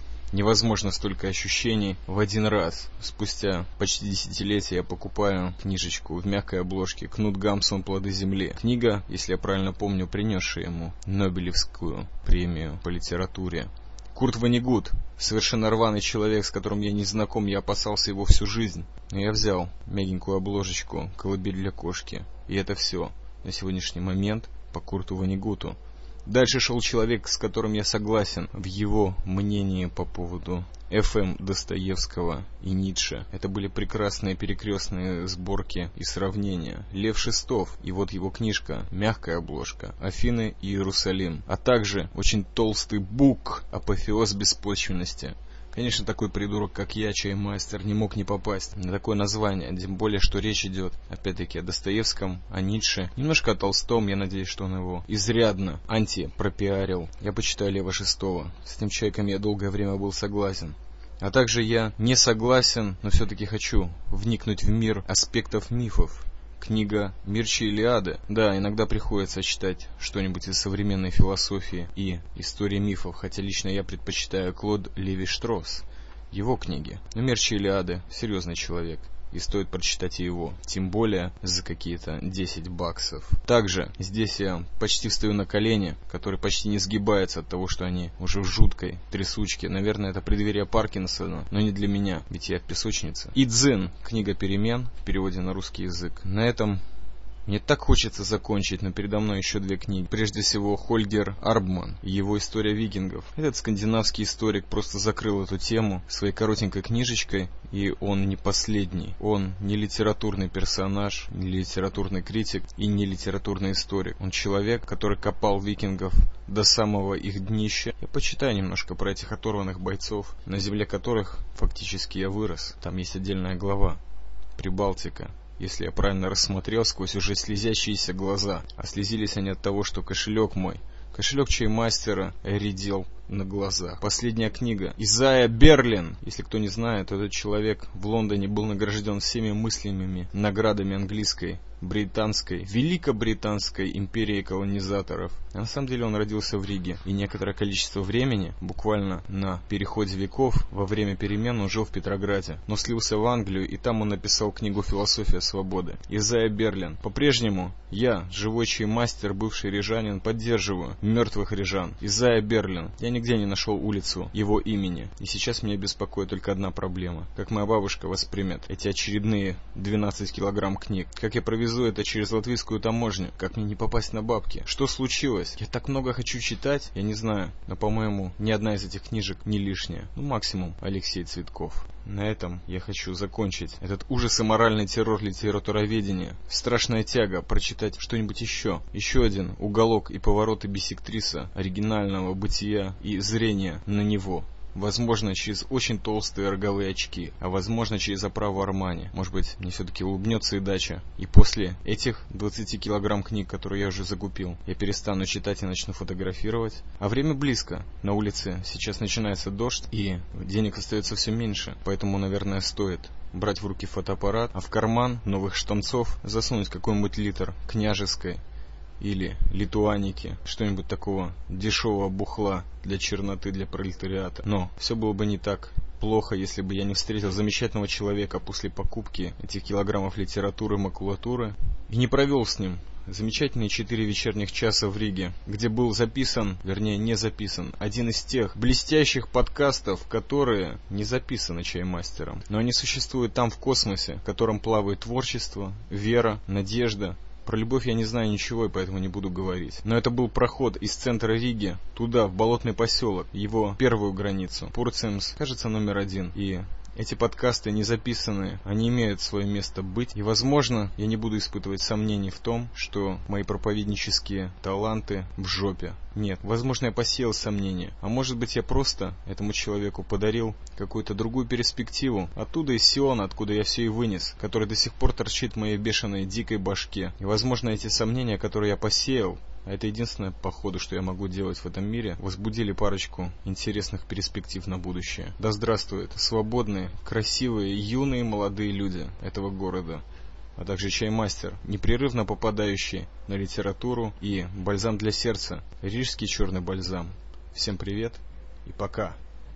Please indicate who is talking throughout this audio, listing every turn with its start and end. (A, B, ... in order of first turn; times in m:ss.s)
0:00.3-1:36.8 A
1:37.4-2:04.0 A
2:04.6-3:38.4 A
3:39.0-4:50.0 A
4:50.6-4:59.2 A